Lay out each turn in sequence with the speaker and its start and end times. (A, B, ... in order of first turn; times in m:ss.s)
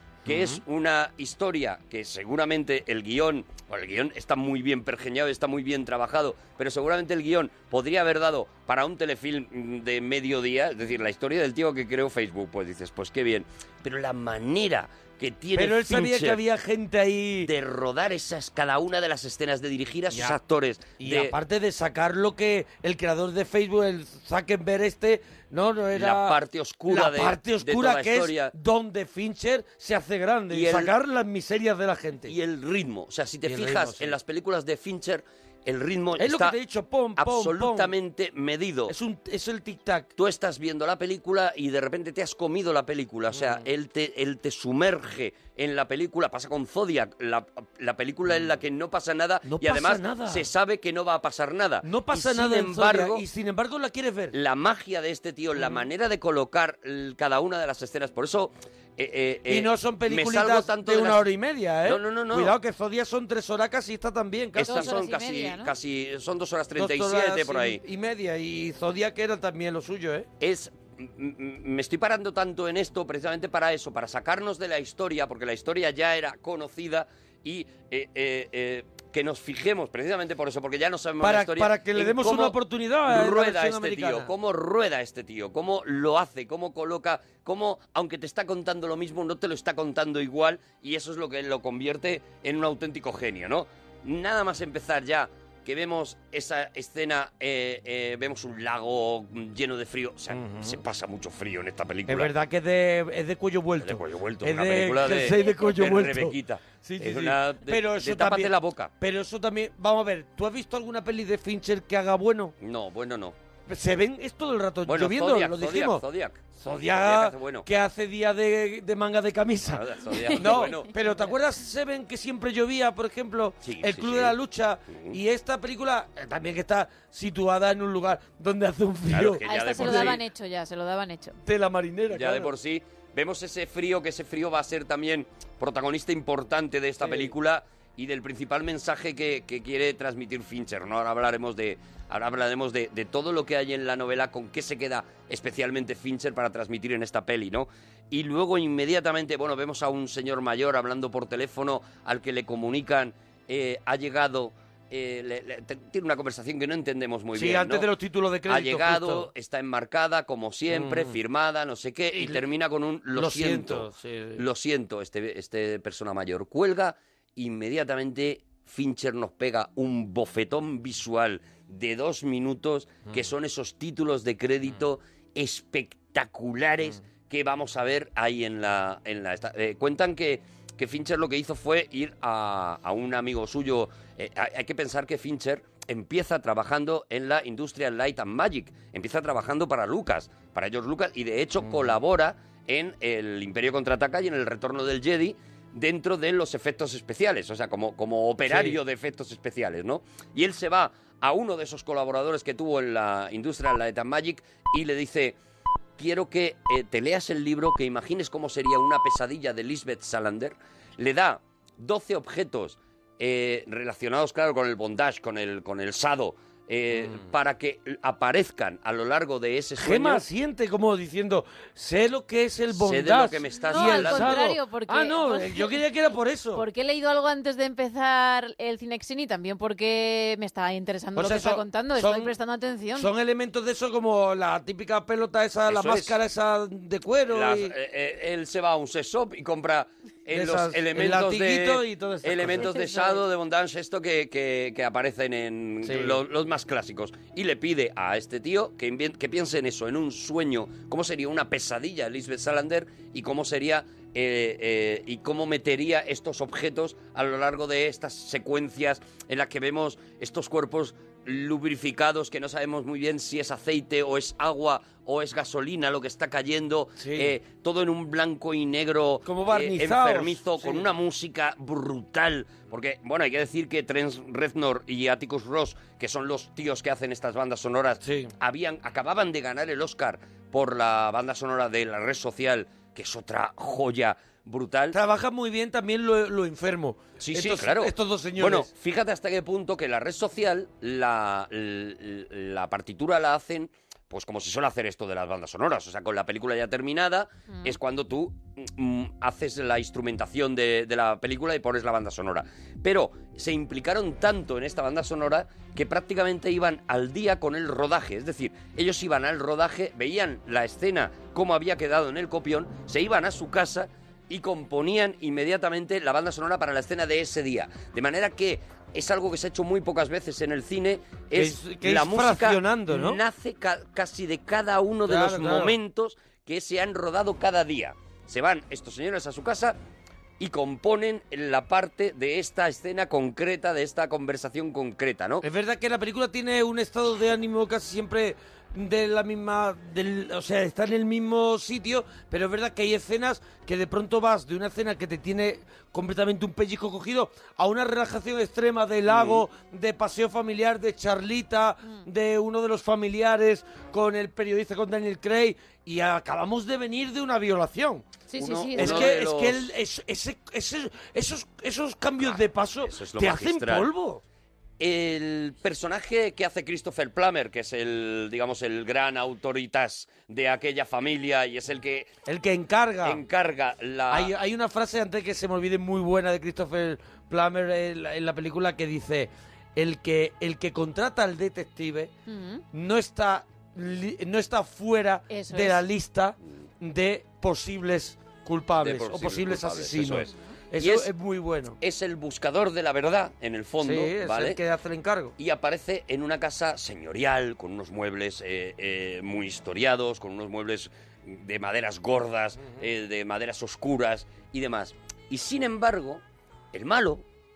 0:00.3-0:00.6 A
0:00.3-0:16.4 B
0:15.6-0:17.5 A
0:17.4-0:21.4 B
0:20.1-0:20.4 A
0:21.0-0:32.3 A
0:25.9-0:28.5 B
0:30.5-0:30.9 B
0:32.3-0:36.6 B
0:33.4-0:34.2 A
0:36.2-0:37.9 A
0:37.2-0:39.0 B
0:38.9-0:40.1 A
0:40.2-0:53.2 B
0:43.3-0:43.6 A
0:49.4-0:50.4 A
0:51.8-0:54.4 A
0:54.3-1:01.3 B
0:59.5-1:05.0 A
1:01.8-1:02.6 B
1:04.6-1:07.8 B
1:04.6-1:05.7 C
1:06.8-1:10.3 A
1:10.4-1:42.3 B
1:21.2-1:24.3 A
1:40.3-1:40.8 A
1:42.1-1:52.5 A
1:43.8-1:48.9 B
1:52.6-1:53.4 B
1:53.7-1:56.0 A
1:54.9-1:57.7 B
1:56.6-2:10.2 A
1:59.6-2:00.9 B
2:00.3-2:00.7 C
2:03.6-2:04.4 B
2:04.9-2:05.2 B
2:09.1-2:10.2 B
2:09.4-2:11.4 C
2:11.4-2:12.5 A
2:12.1-2:37.9 B
2:17.0-2:17.3 A
2:37.3-2:39.3 A
2:38.5-3:25.4 B
2:40.7-2:41.2 A
2:42.1-2:42.4 A
2:43.1-2:44.4 A
3:11.6-3:11.9 A
3:18.4-3:18.8 A
3:26.0-3:40.2 B
3:39.8-3:46.6 A
3:42.7-3:44.4 B
3:43.6-3:45.8 C
3:46.6-3:53.1 C
3:51.2-3:52.3 A
3:53.0-3:57.7 A
3:55.7-3:56.2 B
3:57.3-4:45.0 B
4:00.3-4:02.8 A
4:02.6-4:03.2 C
4:05.8-4:06.2 A
4:27.0-4:27.3 A
4:29.2-4:30.9 A
4:38.0-4:38.3 A
4:44.9-4:48.7 A
4:47.2-5:29.8 B
5:21.3-5:23.2 A
5:25.1-5:25.8 A
5:30.4-5:35.4 B
5:35.4-5:58.1 A
5:49.1-5:49.4 B
5:58.3-5:59.2 C
5:58.4-5:59.7 B
5:58.7-6:04.2 A
6:02.2-6:03.9 B
6:04.8-6:12.1 B
6:12.3-6:13.2 A
6:13.0-6:14.3 B
6:14.1-6:22.1 A
6:22.3-6:22.6 C
6:22.7-6:31.8 A
6:25.3-6:25.8 C
6:28.8-6:31.1 B
6:31.8-6:34.6 B
6:33.8-6:35.3 A
6:35.4-6:47.2 B